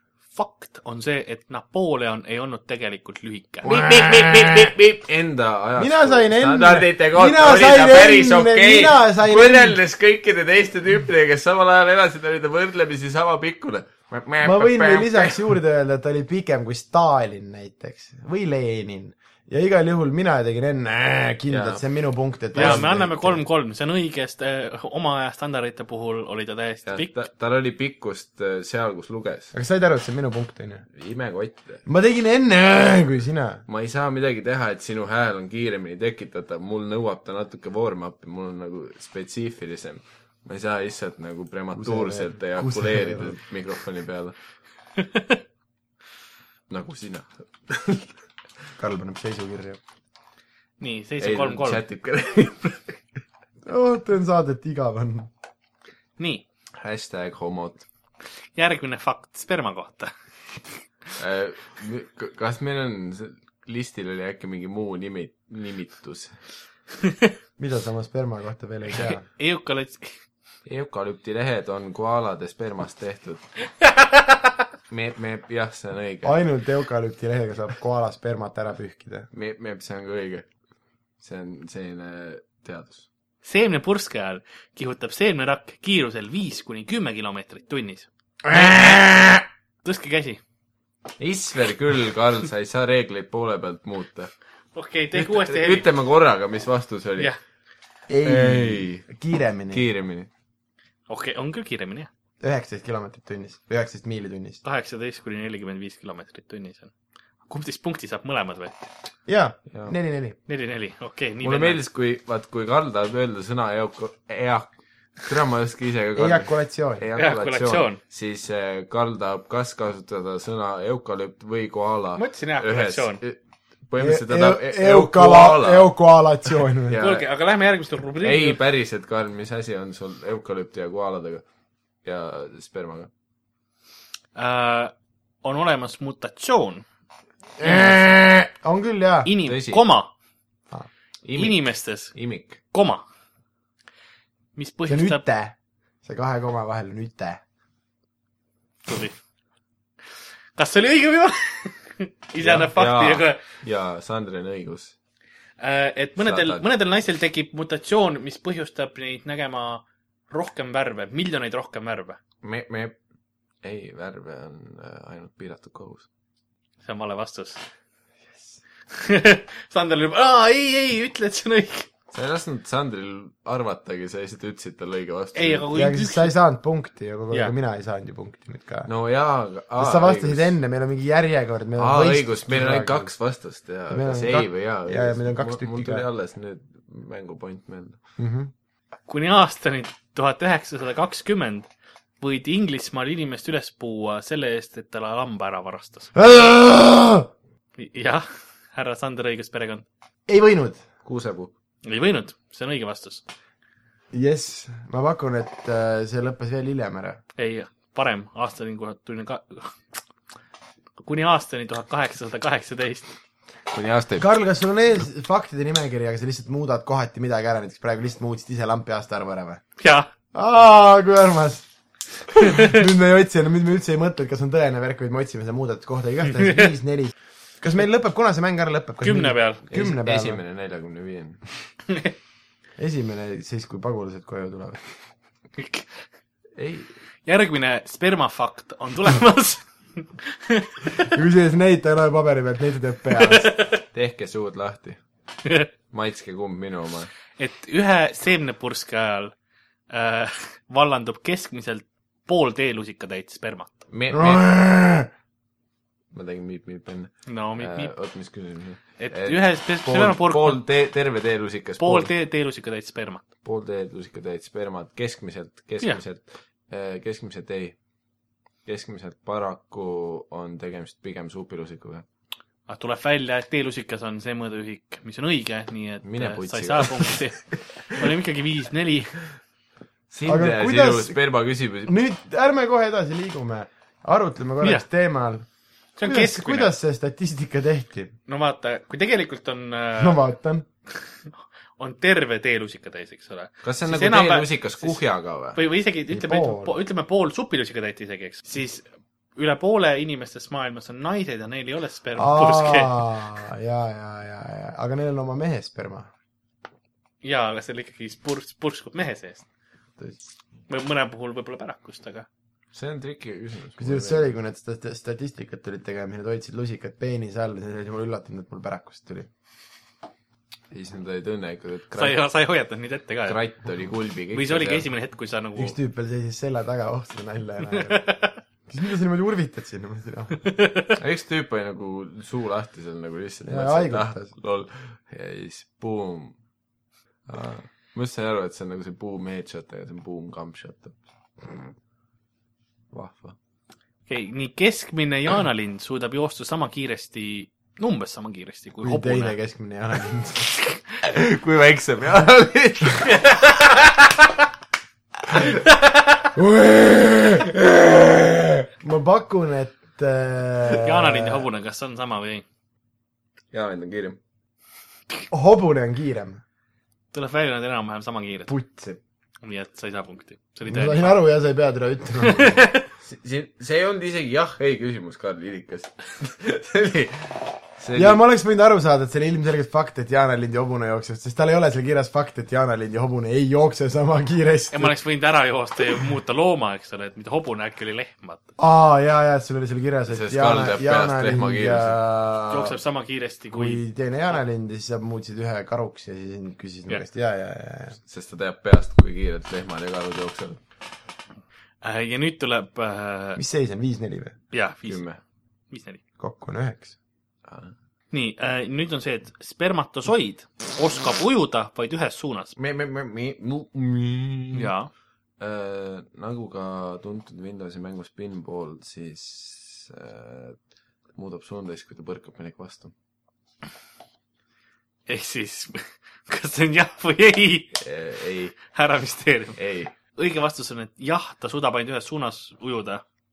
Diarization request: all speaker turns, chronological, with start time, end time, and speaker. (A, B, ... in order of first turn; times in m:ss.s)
0:00.3-0:03.7 A
0:03.6-0:15.5 B
0:03.6-0:04.7 C
0:05.8-0:09.8 C
0:14.4-0:23.4 C
0:21.5-0:21.8 B
0:22.5-0:27.1 A
0:22.6-0:22.8 B
0:26.8-0:29.5 B
0:29.5-0:30.9 C
0:30.9-0:31.8 B
0:31.8-0:33.6 C
0:33.7-0:44.3 B
0:41.7-0:43.4 C
0:45.0-0:45.4 A
0:46.7-0:48.1 B
0:48.8-0:49.8 C
0:50.8-0:51.8 A
0:51.2-0:53.0 B
0:53.6-0:55.3 C
0:56.2-0:56.4 A
0:56.8-0:57.8 B
0:58.5-1:00.1 A
1:01.2-1:06.4 B
1:07.0-1:07.3 A
1:07.6-1:09.2 C
1:09.0-1:10.2 A
1:10.6-1:13.5 B
1:13.8-1:14.4 A
1:14.9-1:16.4 B
1:16.2-1:19.3 C
1:19.3-1:20.4 B
1:21.2-1:23.1 B
1:23.4-1:28.7 A
1:28.4-1:29.4 B
1:29.8-1:30.4 A
1:31.2-1:34.3 B
1:34.7-1:35.9 A
1:35.1-1:37.3 B
1:38.1-1:39.8 C
1:38.2-1:39.1 B
1:39.7-1:40.3 B
1:41.1-1:42.1 A
1:42.4-1:44.6 C
1:44.6-1:46.9 A
1:47.4-1:48.9 A
1:49.2-1:50.4 C
1:50.5-1:51.8 A
1:51.4-2:05.9 B
1:56.2-1:57.0 C
1:57.2-1:58.0 A
2:02.2-2:03.2 A
2:04.0-2:07.0 C
2:06.9-2:07.2 B
2:07.0-2:08.6 A
2:08.2-2:11.4 B
2:12.0-2:13.1 B
2:14.3-2:16.8 A
2:17.6-2:19.3 C
2:17.6-2:18.0 B
2:19.2-2:20.1 A
2:19.4-2:19.8 B
2:21.2-2:22.6 B
2:21.3-2:22.1 A
2:22.7-2:23.0 A
2:24.6-2:25.2 A
2:24.9-2:27.4 C
2:28.8-2:29.2 A
2:30.6-2:33.4 A
2:32.4-2:34.9 B
2:35.6-2:42.2 A
2:36.2-2:36.6 B
2:42.4-2:43.0 B
2:43.6-2:46.1 B
2:46.8-2:47.6 A
2:48.9-2:51.9 A
2:52.1-2:55.7 B
2:55.3-2:56.3 A
2:55.7-2:58.9 C
2:58.8-3:00.6 B
2:59.8-3:03.1 C
3:01.8-3:08.0 B
3:03.9-3:06.0 C
3:08.2-3:08.5 C
3:09.1-3:11.7 A
3:12.2-3:16.1 A
3:16.1-3:17.3 C
3:17.8-3:19.8 A
3:20.3-3:20.8 C
3:21.0-3:21.5 B
3:21.8-3:23.2 A
3:24.1-3:27.2 C
3:27.4-3:29.8 A
3:31.0-3:33.1 A
3:33.7-3:34.3 B
3:34.2-3:39.6 C
3:39.8-3:40.1 A
3:40.3-3:41.7 C
3:42.3-3:50.4 C
3:42.4-3:42.7 A
3:49.0-3:49.6 A
3:49.7-3:51.4 B
3:52.8-3:54.8 C
3:55.6-3:56.0 A
3:56.6-3:56.9 B
3:57.2-4:01.1 A
4:01.0-4:03.5 C
4:03.2-4:03.8 A
4:03.9-4:05.0 B
4:05.9-4:07.1 B
4:07.4-4:09.3 A
4:09.9-4:13.8 A
4:13.9-4:14.4 B
4:14.1-4:15.1 C
4:16.1-4:22.1 B
4:17.2-4:17.9 A
4:19.0-4:20.6 A
4:21.8-4:23.2 A
4:23.4-4:27.8 B
4:28.6-4:32.0 B
4:32.7-4:39.2 A
4:36.0-4:37.2 B
4:40.1-4:41.9 B
4:40.2-4:41.2 C
4:41.8-4:45.5 C
4:46.0-4:46.7 A
4:46.0-4:48.1 C
4:48.3-4:50.2 A
4:50.0-4:50.6 C
4:51.2-4:55.0 A
4:53.6-4:55.6 B
4:55.5-5:03.0 A
4:56.1-4:56.7 C
5:02.2-5:06.1 C
5:07.2-5:09.4 A
5:10.7-5:12.3 A
5:12.7-5:14.3 B
5:13.8-5:19.3 C
5:20.7-5:22.2 B
5:21.9-5:23.4 A
5:23.2-5:24.9 B
5:24.3-5:25.8 A
5:25.6-5:28.1 C
5:27.8-5:28.4 A
5:28.7-5:30.4 C
5:30.4-5:31.0 A
5:31.0-5:36.3 B
5:33.4-5:34.3 C
5:37.3-5:41.7 B
5:42.9-5:43.4 B
5:44.1-5:49.4 A
5:48.8-5:50.6 C
5:51.0-5:53.4 B
5:56.3-6:01.4 C
6:00.7-6:02.4 A
6:03.5-6:04.2 B
6:05.3-6:06.4 C
6:07.1-6:08.5 A
6:08.5-6:09.0 C
6:09.4-6:11.2 A
6:10.7-6:12.7 C
6:12.2-6:12.8 A
6:13.0-6:18.2 B
6:17.9-6:24.9 C
6:24.7-6:28.4 A
6:28.6-6:32.7 C
6:30.1-6:32.1 B
6:32.5-6:33.8 A
6:33.5-6:38.0 C
6:38.1-6:40.6 B
6:41.8-6:43.4 A
6:43.4-6:44.4 C
6:44.5-6:45.0 A
6:44.8-6:45.2 B
6:45.7-6:46.0 A
6:46.2-6:46.9 C
6:47.4-6:47.7 B
6:48.1-6:52.5 A
6:52.6-6:54.7 B
6:54.5-6:54.9 A
6:55.4-7:00.6 B
7:01.1-7:02.9 B
7:05.1-7:07.8 A
7:07.8-7:08.6 B
7:08.6-7:09.6 A
7:09.6-7:09.9 B
7:10.1-7:13.0 A